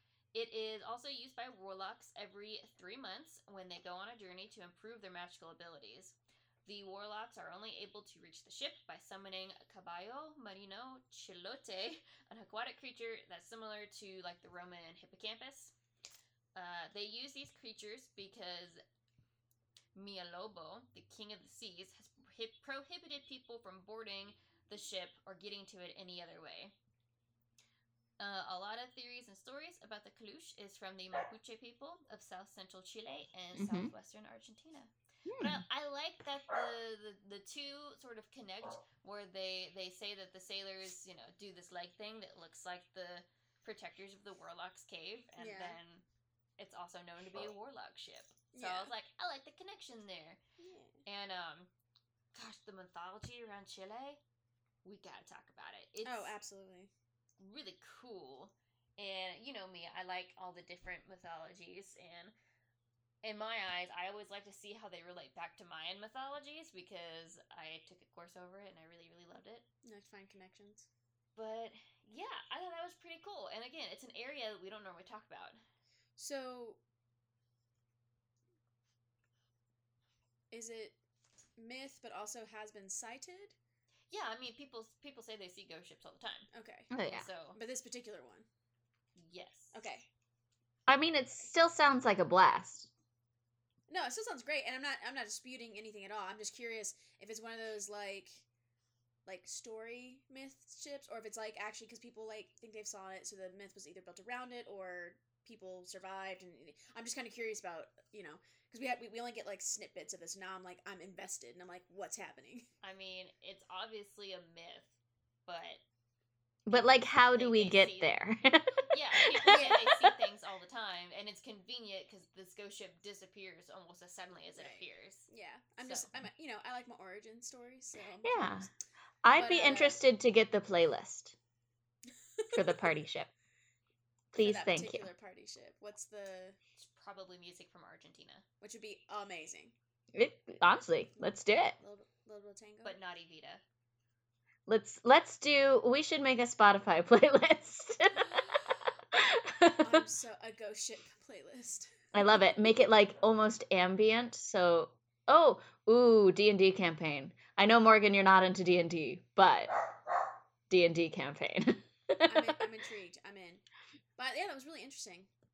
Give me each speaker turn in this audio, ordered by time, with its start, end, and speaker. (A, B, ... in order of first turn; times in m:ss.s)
0:00.3-0:15.7 A
0:16.5-0:18.8 A
0:19.9-0:26.7 A
0:28.2-0:46.0 A
0:33.6-0:33.9 B
0:35.3-0:35.6 B
0:45.4-0:45.8 C
0:46.6-0:50.4 A
0:48.5-0:48.9 C
0:50.6-0:51.0 C
0:51.0-0:51.7 A
0:52.3-0:54.2 A
0:54.8-0:56.4 A
0:56.0-0:56.9 C
0:57.4-1:02.3 A
1:03.2-1:09.6 A
1:09.8-1:10.9 C
1:11.4-1:15.6 A
1:16.2-1:16.8 C
1:20.5-1:21.0 C
1:21.6-1:23.6 C
1:24.1-1:26.5 A
1:26.5-1:26.9 C
1:26.9-1:27.3 B
1:27.0-1:27.6 A
1:27.5-1:28.5 C
1:29.2-1:29.8 A
1:29.7-1:30.1 C
1:30.9-1:32.9 B
1:33.9-1:38.4 C
1:39.2-1:52.7 C
1:52.8-1:54.9 A
1:55.4-1:55.8 A
1:56.7-1:59.9 B
1:56.7-1:58.1 A
1:58.8-2:05.3 A
1:59.5-1:59.9 C
2:04.5-2:08.7 C
2:05.8-2:06.1 A
2:08.2-2:08.7 B
2:09.2-2:11.4 B
2:09.3-2:10.0 C
2:12.4-2:12.8 C
2:12.5-2:13.3 B
2:14.3-2:15.0 B
2:14.4-2:16.6 C
2:16.8-2:18.4 A
2:18.6-2:19.7 C
2:20.1-2:21.8 B
2:21.2-2:23.0 C
2:22.8-2:23.6 A
2:24.7-2:30.0 B
2:29.8-2:32.0 C
2:32.1-2:39.7 B
2:40.7-2:42.5 B
2:42.2-2:43.6 C
2:44.2-2:45.3 C